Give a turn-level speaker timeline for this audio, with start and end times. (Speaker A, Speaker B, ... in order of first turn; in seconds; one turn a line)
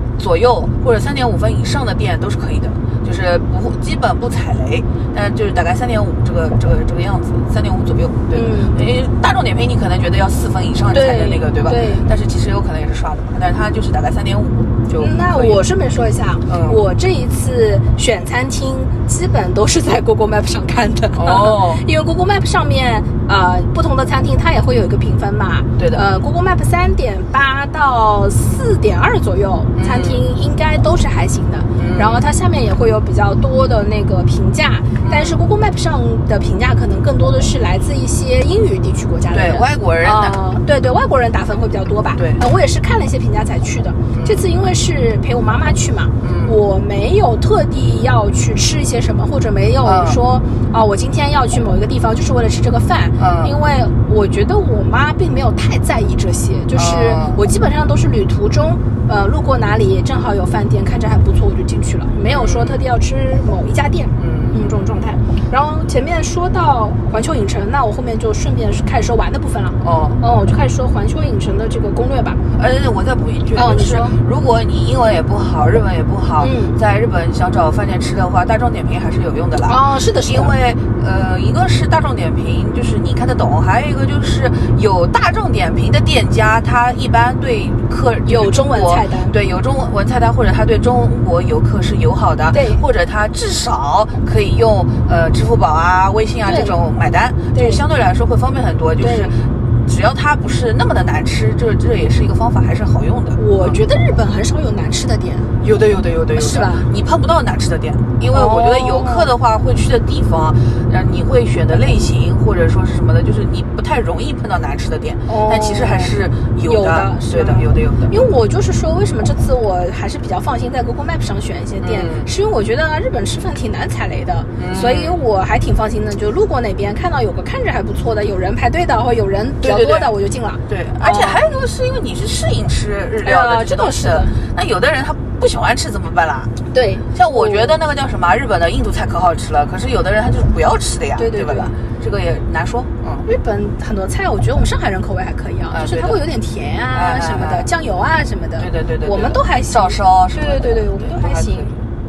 Speaker A: 0.2-15.6
Speaker B: 8.3-8.8
Speaker B: 10.9-12.1
Speaker B: 15.0-72.4
Speaker A: 16.5-16.8
Speaker A: 21.1-21.8
Speaker A: 25.8-26.0
Speaker A: 29.7-30.2
Speaker A: 31.8-32.2
Speaker A: 35.0-35.4
Speaker A: 39.3-40.4
Speaker A: 44.1-44.4
Speaker A: 46.2-46.6
Speaker A: 49.8-50.2
Speaker A: 53.2-53.5
Speaker A: 56.7-57.4
Speaker A: 62.2-62.8
Speaker A: 64.2-64.7
Speaker A: 69.8-70.2
Speaker A: 72.5-103.8
Speaker B: 73.5-74.2
Speaker B: 76.4-76.8
Speaker B: 79.7-80.5
Speaker B: 88.2-89.3
Speaker B: 92.5-92.8
Speaker B: 96.5-96.8
Speaker B: 97.5-97.8
Speaker B: 99.0-99.3
Speaker B: 103.4-105.5
Speaker A: 105.6-118.1
Speaker B: 106.3-106.9
Speaker B: 108.3-109.3
Speaker B: 115.3-116.1
Speaker B: 116.6-131.4
Speaker A: 121.8-122.3
Speaker A: 124.5-125.2
Speaker A: 129.6-130.1
Speaker A: 130.7-136.5
Speaker B: 133.2-134.4
Speaker B: 136.7-137.8
Speaker A: 137.1-143.2
Speaker B: 141.2-141.7
Speaker B: 143.2-151.7
Speaker A: 145.7-146.2
Speaker A: 146.9-147.7
Speaker A: 148.6-151.8